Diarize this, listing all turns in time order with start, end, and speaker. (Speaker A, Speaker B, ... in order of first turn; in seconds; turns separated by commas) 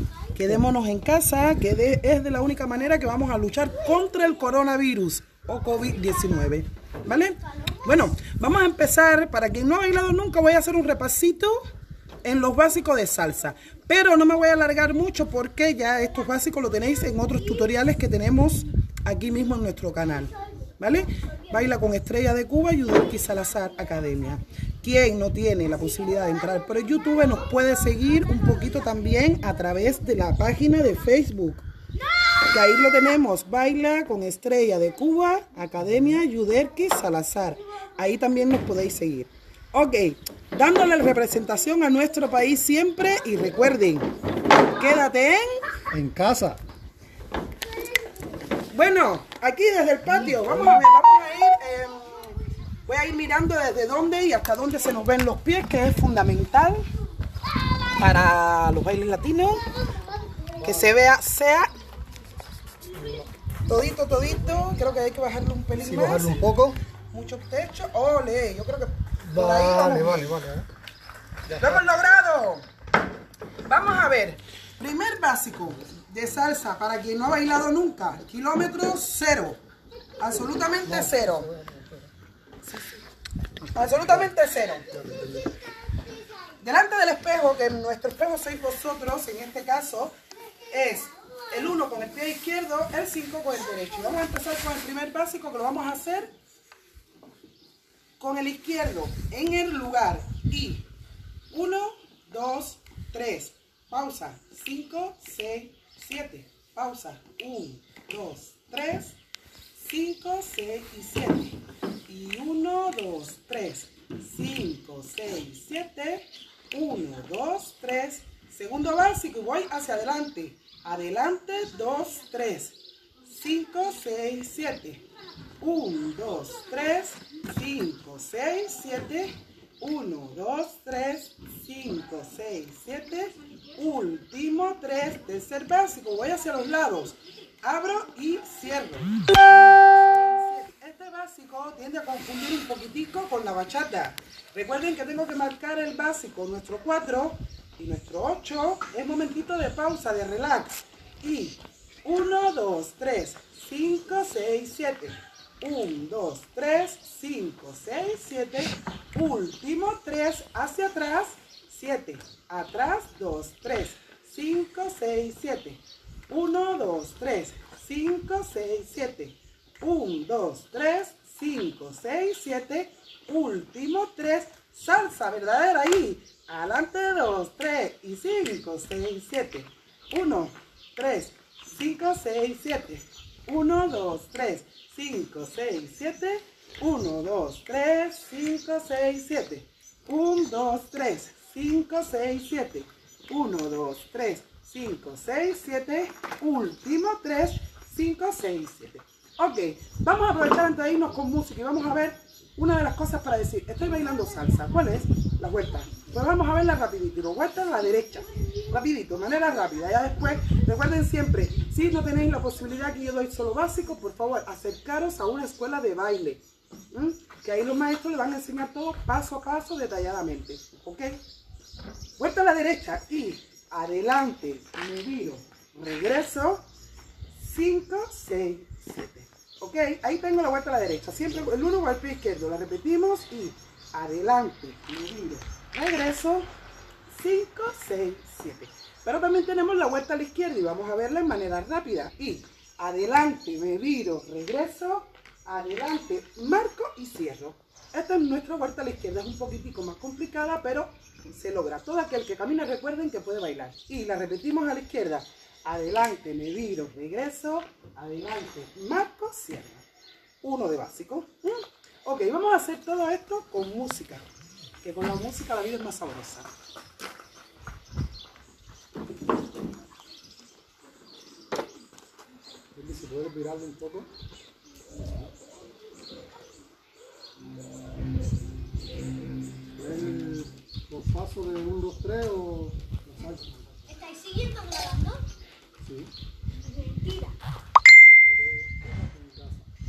Speaker A: 0.3-11.7, Speaker A: 12.2-31.7, Speaker A: 32.4-44.1, Speaker A: 44.7-45.6, Speaker B: 45.9-46.6, Speaker A: 48.7-56.9, Speaker A: 58.0-59.7, Speaker B: 60.6-60.9, Speaker A: 60.6-61.7, Speaker B: 62.8-63.3, Speaker A: 63.7-66.5, Speaker B: 65.8-66.8, Speaker A: 67.1-70.3, Speaker B: 69.2-70.7, Speaker B: 71.5-71.8, Speaker A: 71.5-72.7, Speaker A: 73.7-79.6, Speaker A: 80.2-81.5, Speaker B: 80.8-82.1, Speaker B: 83.6-84.3, Speaker A: 83.7-84.9, Speaker B: 84.9-85.6, Speaker A: 86.6-90.2, Speaker A: 90.7-96.3, Speaker A: 98.2-100.9, Speaker A: 101.5-109.2, Speaker A: 109.8-125.1, Speaker A: 125.6-221.2, Speaker A: 222.2-226.7, Speaker A: 227.3-236.5, Speaker A: 237.1-259.9, Speaker A: 260.4-264.2, Speaker A: 264.8-266.5, Speaker B: 272.7-274.1, Speaker B: 275.0-275.3, Speaker B: 279.8-284.0, Speaker C: 283.9-285.2, Speaker B: 285.8-286.1, Speaker C: 286.6-287.4, Speaker B: 288.0-289.7